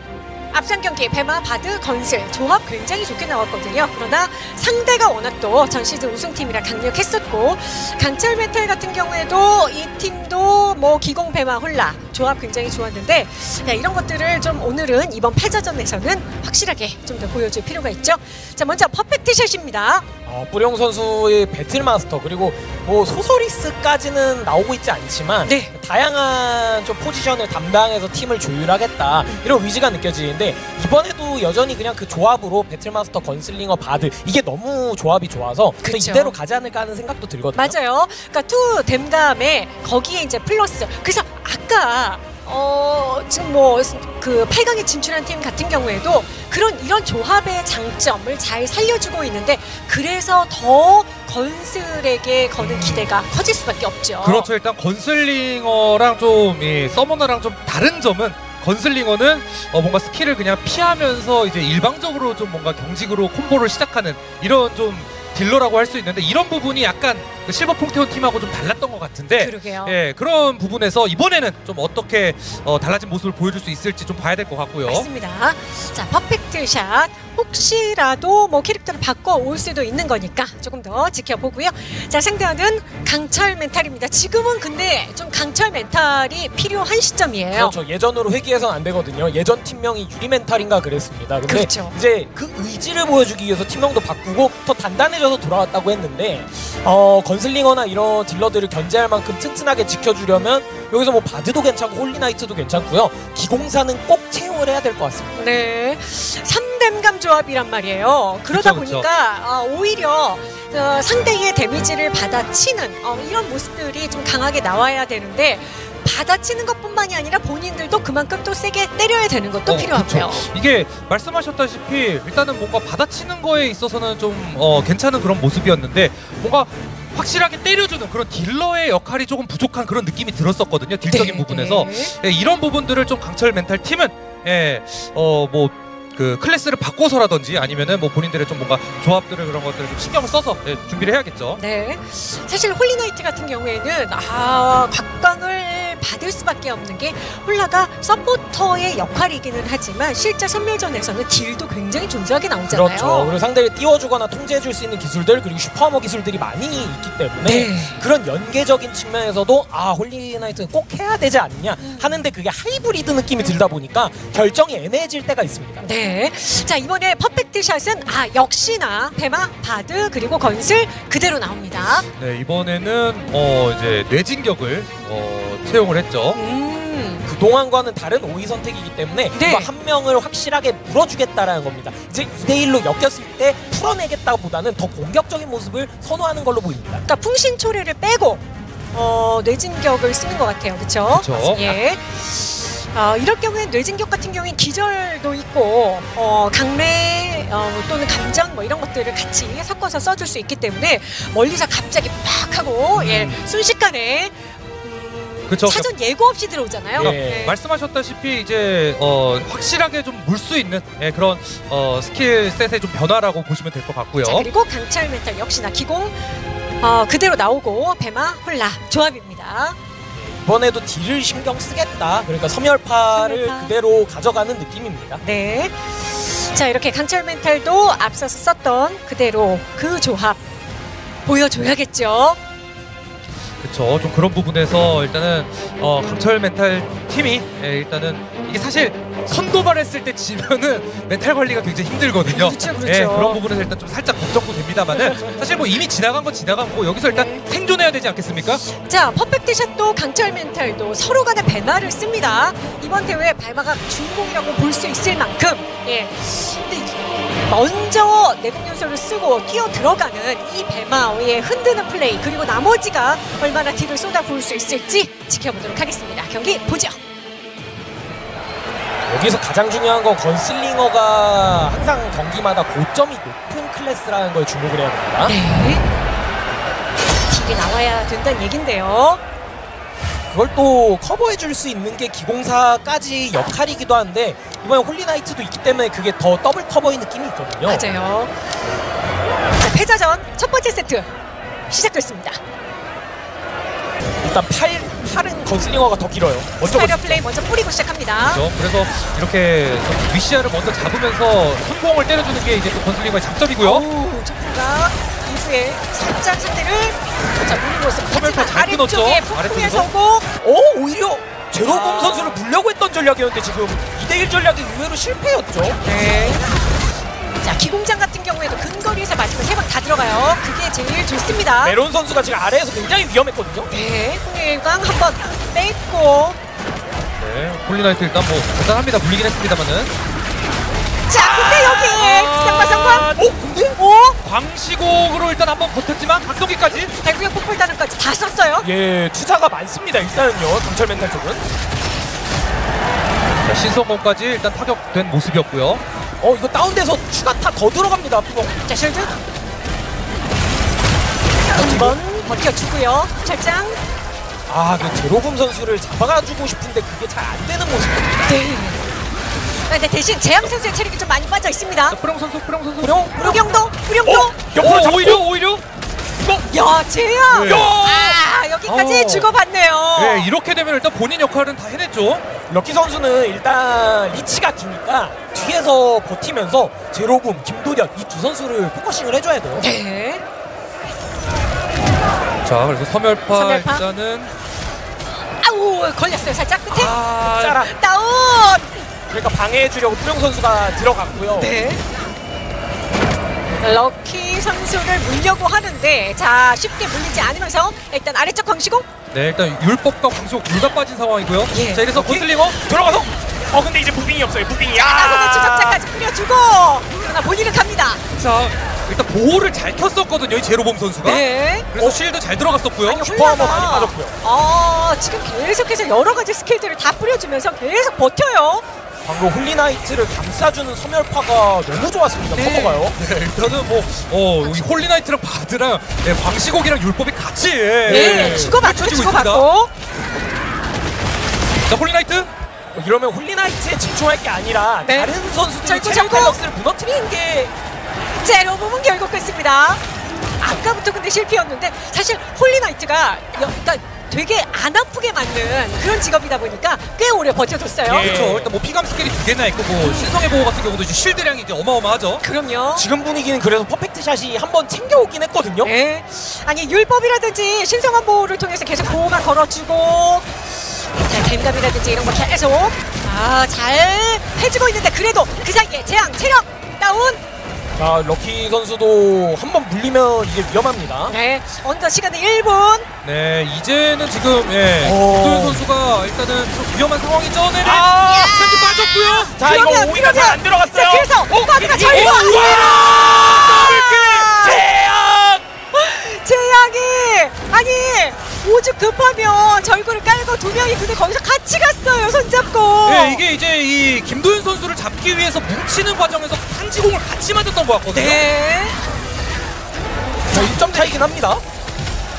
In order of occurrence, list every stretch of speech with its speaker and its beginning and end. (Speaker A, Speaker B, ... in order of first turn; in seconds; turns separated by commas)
Speaker A: 0.5-20.1, Speaker B: 20.3-37.8, Speaker A: 25.5-25.7, Speaker A: 35.8-36.4, Speaker A: 37.5-54.5, Speaker C: 52.6-53.1, Speaker C: 54.2-75.1, Speaker A: 69.4-70.0, Speaker A: 74.9-87.8, Speaker B: 87.5-105.4, Speaker A: 91.5-92.0, Speaker A: 105.4-120.5, Speaker C: 108.5-109.1, Speaker C: 119.7-141.6, Speaker A: 131.1-132.1, Speaker A: 141.6-153.3, Speaker B: 152.7-165.9, Speaker A: 157.4-158.0, Speaker A: 161.8-162.1, Speaker A: 165.8-172.1, Speaker C: 172.2-176.4, Speaker A: 176.3-177.2, Speaker B: 177.2-187.1, Speaker A: 179.3-179.7, Speaker A: 187.1-188.4, Speaker A: 188.9-207.6, Speaker C: 191.1-191.8, Speaker C: 202.9-203.4, Speaker C: 205.5-205.9, Speaker C: 207.0-214.5, Speaker B: 207.0-207.5, Speaker A: 214.2-216.2, Speaker A: 216.8-219.8, Speaker B: 220.1-225.2, Speaker A: 223.1-223.7, Speaker A: 225.2-230.4, Speaker A: 231.3-232.4, Speaker C: 233.6-248.7, Speaker A: 242.3-243.4, Speaker A: 244.9-245.4, Speaker A: 247.1-247.4, Speaker A: 248.7-267.0, Speaker B: 269.1-275.4, Speaker A: 275.3-275.9, Speaker A: 277.3-279.2, Speaker B: 280.3-287.9, Speaker A: 287.7-288.3, Speaker A: 289.6-291.1, Speaker A: 291.7-292.4, Speaker B: 294.2-297.2, Speaker A: 296.6-298.4, Speaker C: 298.3-303.8, Speaker A: 303.6-310.3, Speaker C: 308.1-309.9, Speaker B: 310.4-315.8, Speaker C: 311.8-312.0, Speaker A: 312.0-312.3, Speaker A: 315.8-316.4, Speaker A: 317.4-321.8, Speaker B: 321.6-323.7, Speaker A: 323.7-326.4, Speaker C: 327.2-329.9, Speaker A: 331.1-333.1, Speaker B: 331.1-333.8, Speaker A: 333.8-334.2, Speaker C: 334.2-336.9, Speaker A: 337.0-338.7, Speaker B: 338.6-341.4, Speaker C: 343.4-345.8, Speaker B: 346.2-348.6, Speaker A: 348.7-349.1, Speaker A: 351.5-353.8, Speaker B: 351.6-352.0, Speaker B: 354.5-358.4, Speaker A: 358.3-358.8, Speaker A: 359.7-362.0, Speaker C: 361.9-363.0, Speaker B: 362.8-365.2, Speaker A: 363.1-364.4, Speaker C: 364.6-365.6, Speaker A: 366.5-370.3, Speaker C: 367.3-368.1, Speaker B: 367.4-368.1, Speaker C: 368.7-369.3, Speaker C: 370.0-372.3, Speaker B: 372.5-379.7, Speaker A: 379.6-380.2, Speaker C: 382.4-384.3, Speaker A: 383.3-383.8, Speaker A: 385.4-386.9, Speaker B: 386.7-387.7, Speaker C: 386.8-387.6, Speaker A: 387.6-388.8, Speaker B: 389.1-391.5, Speaker A: 391.4-391.8, Speaker A: 393.6-398.9, Speaker C: 399.1-402.6, Speaker A: 401.5-401.9, Speaker B: 401.9-405.8, Speaker A: 404.7-408.0, Speaker C: 408.1-413.0, Speaker A: 411.0-411.7, Speaker A: 412.9-418.6, Speaker B: 413.0-414.1, Speaker B: 419.0-423.0, Speaker A: 422.4-422.8, Speaker C: 422.8-429.5, Speaker B: 427.9-428.6, Speaker A: 427.9-429.7, Speaker C: 431.7-432.3, Speaker B: 432.7-437.5, Speaker A: 434.9-436.4, Speaker A: 438.2-439.8, Speaker A: 440.4-448.2, Speaker B: 447.9-448.5, Speaker C: 447.9-452.2, Speaker A: 449.8-450.1, Speaker A: 452.2-452.9, Speaker B: 452.8-455.7, Speaker A: 455.6-467.2, Speaker B: 467.8-471.1, Speaker A: 471.1-472.9, Speaker C: 473.0-479.4, Speaker B: 474.8-475.6, Speaker B: 477.6-478.4, Speaker A: 478.0-484.6, Speaker B: 479.4-485.5, Speaker A: 485.7-493.2, Speaker C: 492.9-498.2, Speaker A: 497.9-498.8, Speaker B: 500.3-501.4, Speaker A: 500.3-500.9